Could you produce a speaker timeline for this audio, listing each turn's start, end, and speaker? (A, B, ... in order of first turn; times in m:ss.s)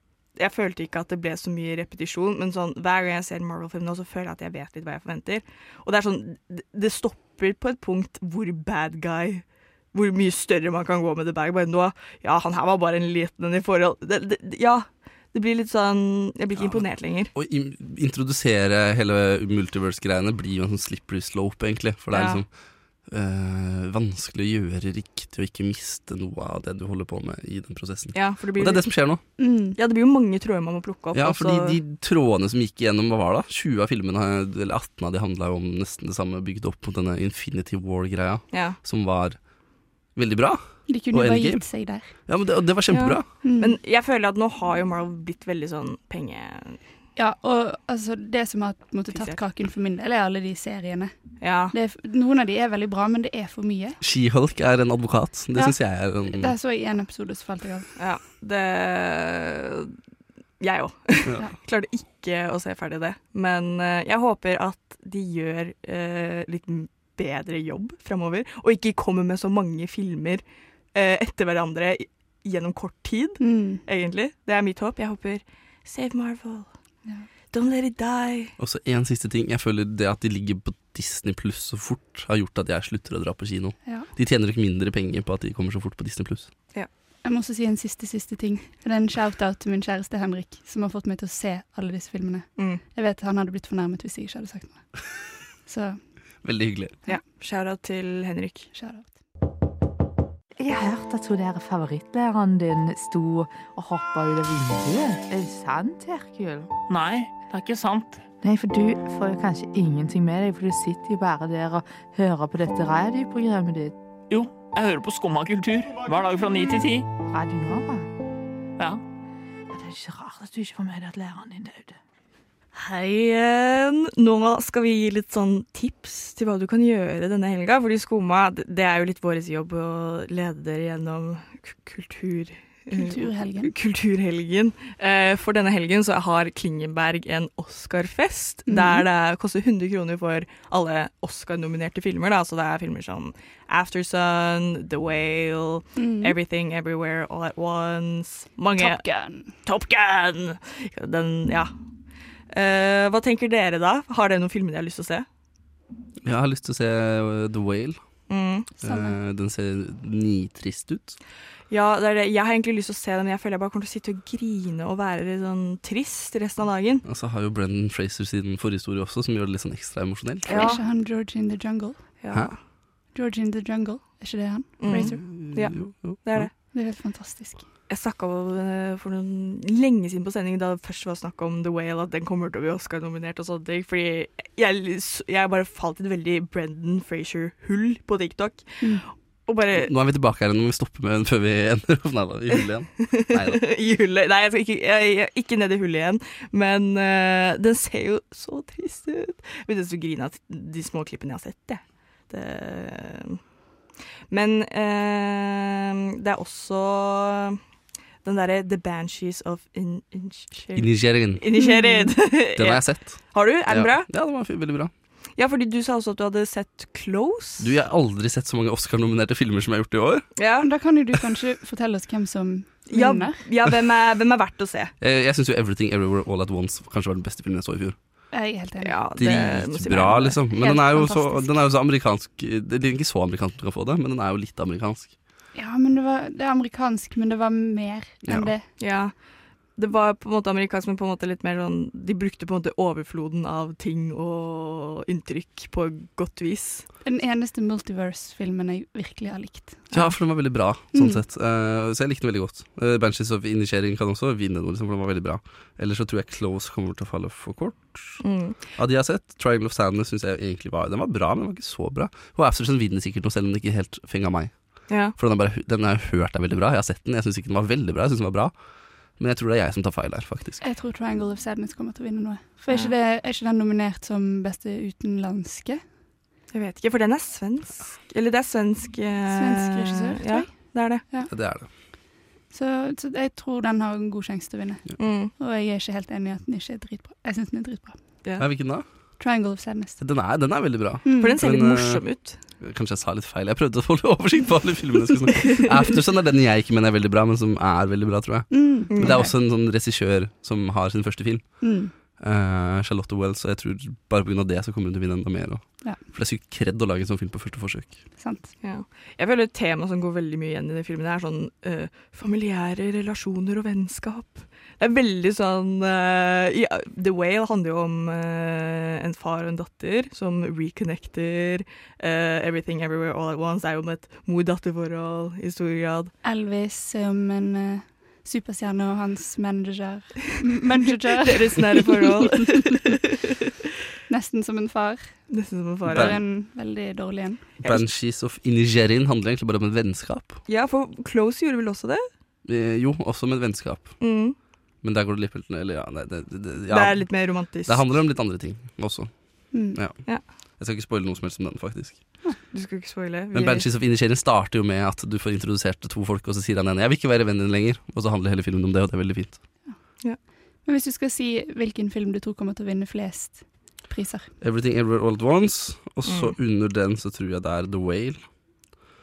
0:00.4-0:17.3 A
0:16.6-0:22.5 B
0:22.1-0:22.4 A
0:23.1-0:29.2 B
0:28.1-0:28.8 A
0:29.4-0:29.8 C
0:29.8-0:31.8 A
0:31.1-0:39.4 B
0:38.5-0:38.8 A
0:40.2-0:41.7 B
0:40.9-0:42.1 C
0:42.3-0:43.2 B
0:42.9-0:46.8 A
0:43.4-0:43.8 C
0:47.2-0:51.1 C
0:49.1-0:49.4 A
0:51.4-0:51.7 A
0:51.7-0:54.0 C
0:54.0-0:56.5 B
0:56.3-0:57.9 C
0:58.0-0:59.9 A
1:00.6-1:10.4 A
1:10.9-1:16.7 A
1:13.4-1:13.8 C
1:17.5-1:18.5 A
1:18.6-1:26.5 B
1:27.2-1:34.9 C
1:35.7-1:36.0 C
1:36.4-1:37.0 B
1:37.1-1:38.7 A
1:38.7-1:39.1 C
1:40.6-1:46.7 D
1:46.9-1:48.2 E
1:48.4-1:53.9 D
1:54.3-1:57.1 E
1:57.3-1:58.1 D
1:59.7-2:02.0 D
2:02.7-2:29.0 A
2:12.9-2:13.7 C
2:18.7-2:19.0 C
2:26.0-2:26.3 C
2:28.8-2:29.5 C
2:29.6-2:31.7 A
2:32.5-2:35.2 A
2:36.2-2:38.0 B
2:38.3-2:38.7 A
2:38.8-2:39.2 C
2:38.8-2:41.2 B
2:41.7-2:47.0 A
2:47.0-2:50.8 B
2:50.5-2:52.1 C
2:50.5-2:50.8 A
2:52.2-2:52.6 A
2:53.1-2:55.2 C
2:54.8-2:56.5 A
2:54.8-2:56.5 B
2:56.7-2:57.6 C
2:57.9-3:09.9 A
3:09.7-3:13.6 B
3:13.0-3:23.4 A
3:24.3-3:27.6 A
3:28.2-3:34.1 A
3:30.7-3:31.4 B
3:31.6-3:32.1 C
3:32.6-3:34.9 B
3:35.4-3:37.7 A
3:37.6-3:40.2 B
3:40.4-3:40.7 A
3:40.6-3:43.4 C
3:42.9-3:44.9 A
3:45.0-3:48.0 B
3:48.3-3:49.0 C
3:48.8-3:50.4 A
3:49.2-3:55.1 B
3:50.6-3:51.5 C
3:55.5-3:58.6 C
3:58.2-3:58.5 B
3:58.8-3:59.1 A
3:59.8-4:06.9 A
4:07.0-4:10.2 C
4:09.9-4:18.2 B
4:10.9-4:11.2 C
4:18.2-4:18.6 A
4:18.7-4:28.5 B
4:24.9-4:25.1 A
4:29.2-4:30.6 B
4:30.6-4:35.8 C
4:36.5-4:41.0 A
4:39.3-4:41.3 C
4:41.3-4:41.7 B
4:42.5-4:48.0 C
4:45.0-4:45.3 A
4:48.4-4:48.8 B
4:49.2-4:50.0 C
4:50.0-4:52.0 B
4:51.0-4:51.4 C
4:51.2-4:52.4 A
4:52.6-5:01.6 B
4:58.5-4:58.9 C
4:58.9-4:59.3 A
5:01.6-5:01.9 C
5:02.1-5:08.0 B
5:08.2-5:08.5 C
5:08.6-5:26.1 A
5:26.2-5:32.6 C
5:31.2-5:33.2 A
5:34.1-5:35.4 C
5:35.3-5:36.2 A
5:35.9-5:36.2 B
5:35.9-5:37.5 C
5:37.6-5:37.9 A
5:37.6-5:40.4 B
5:40.5-5:42.0 A
5:42.4-5:44.0 B
5:44.0-5:44.4 A
5:44.8-5:50.0 B
5:46.7-5:47.8 A
5:49.5-5:49.8 C
5:50.6-5:52.1 B
5:52.5-5:53.6 A
5:53.3-5:59.4 B
6:00.6-6:04.3 C
6:04.4-6:08.2 B
6:06.0-6:06.3 A